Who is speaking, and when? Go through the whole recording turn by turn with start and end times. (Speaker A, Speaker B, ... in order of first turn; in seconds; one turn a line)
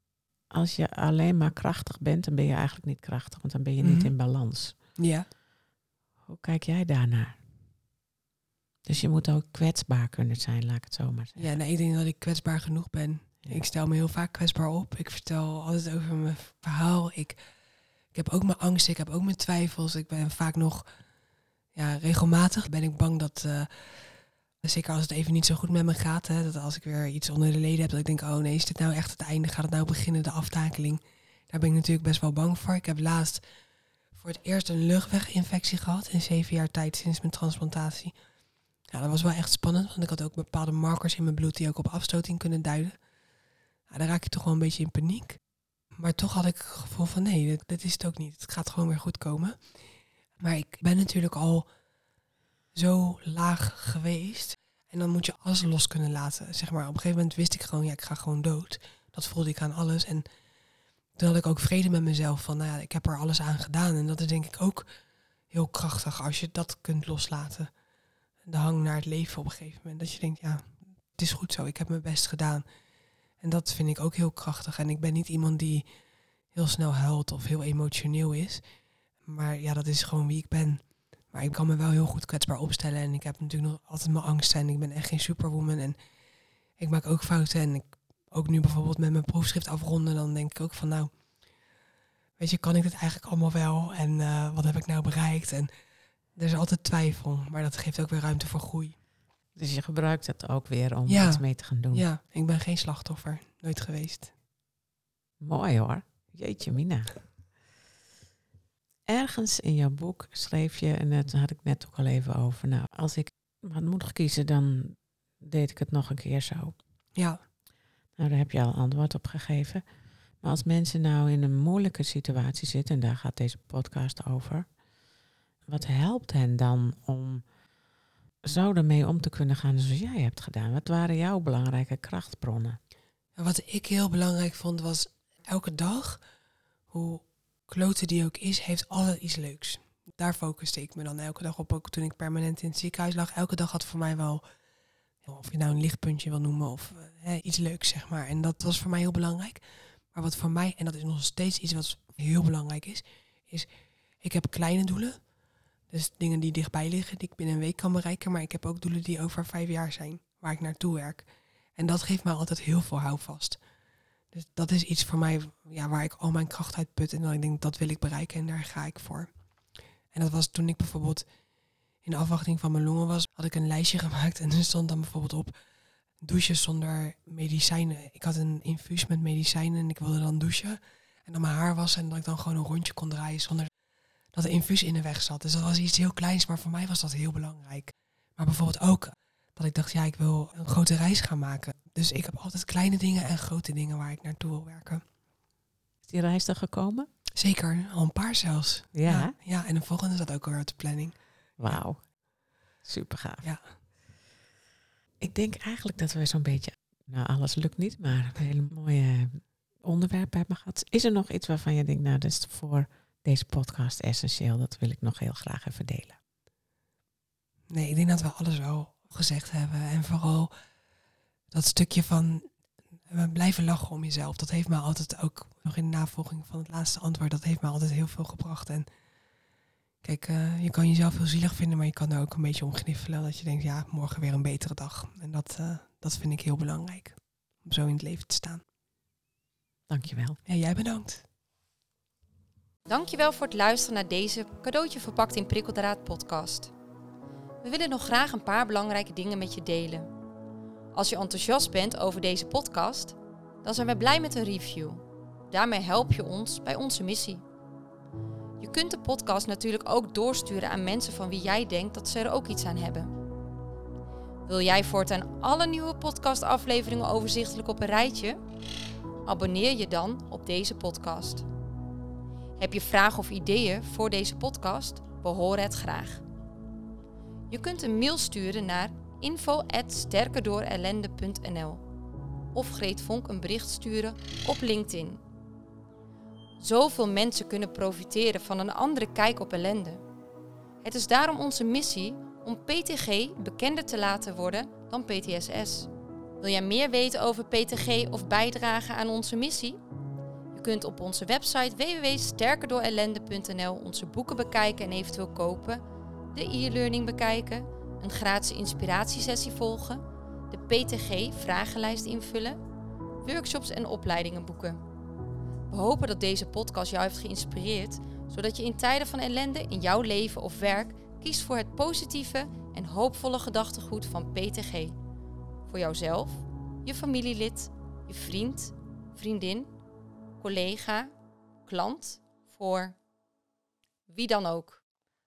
Speaker A: 0.5-4.8
Speaker B: 3.8-4.1
Speaker B: 5.0-5.3
Speaker A: 6.3-7.4
Speaker A: 8.9-11.5
Speaker B: 11.4-17.4
Speaker B: 18.1-20.9
Speaker B: 21.8-24.1
Speaker B: 24.6-33.4
Speaker B: 34.1-38.1
Speaker B: 38.9-43.0
Speaker B: 43.9-45.4
Speaker B: 46.0-49.6
Speaker B: 50.4-51.7
Speaker B: 52.7-60.3
Speaker B: 61.2-64.9
Speaker B: 65.5-67.7
Speaker B: 68.5-72.6
Speaker B: 73.4-75.9
Speaker B: 76.5-78.6
Speaker B: 79.2-86.0
Speaker B: 86.8-91.1
Speaker B: 92.4-95.7
Speaker B: 96.4-99.0
Speaker A: 99.5-102.0
Speaker B: 101.1-104.3
Speaker A: 105.4-107.1
Speaker A: 109.1-116.8
Speaker A: 118.2-119.8
Speaker A: 120.4-124.7
Speaker A: 125.7-127.5
Speaker A: 128.4-132.8
Speaker B: 133.4-136.2
Speaker B: 136.9-144.4
Speaker B: 145.2-149.6
Speaker B: 150.1-153.7
Speaker B: 154.2-155.2
Speaker B: 155.9-163.6
Speaker B: 164.3-169.3
Speaker B: 170.1-171.2
Speaker B: 172.1-175.5
Speaker B: 176.2-183.7
Speaker B: 184.3-195.0
Speaker A: 196.1-197.1
Speaker B: 197.4-201.2
Speaker A: 198.9-199.3
Speaker A: 201.6-202.0
Speaker A: 202.8-203.4
Speaker A: 205.2-216.2
Speaker B: 217.7-220.5
Speaker B: 221.5-222.4
Speaker B: 223.1-228.9
Speaker B: 230.0-238.6
Speaker A: 239.9-240.4
Speaker B: 240.4-241.2
Speaker C: 242.9-246.7
Speaker C: 247.6-250.1
Speaker C: 250.9-257.4
Speaker C: 258.6-263.1
Speaker C: 264.4-268.4
Speaker C: 269.3-271.5
Speaker C: 272.6-276.2
Speaker C: 277.5-281.8
Speaker C: 282.5-285.2
Speaker C: 286.6-290.0
Speaker C: 290.8-299.8
Speaker C: 300.5-305.8
Speaker C: 306.3-312.6
Speaker C: 313.2-314.8
Speaker C: 315.7-325.0
Speaker C: 325.7-329.7
Speaker C: 330.4-331.1
Speaker C: 331.7-333.0
Speaker C: 334.1-334.8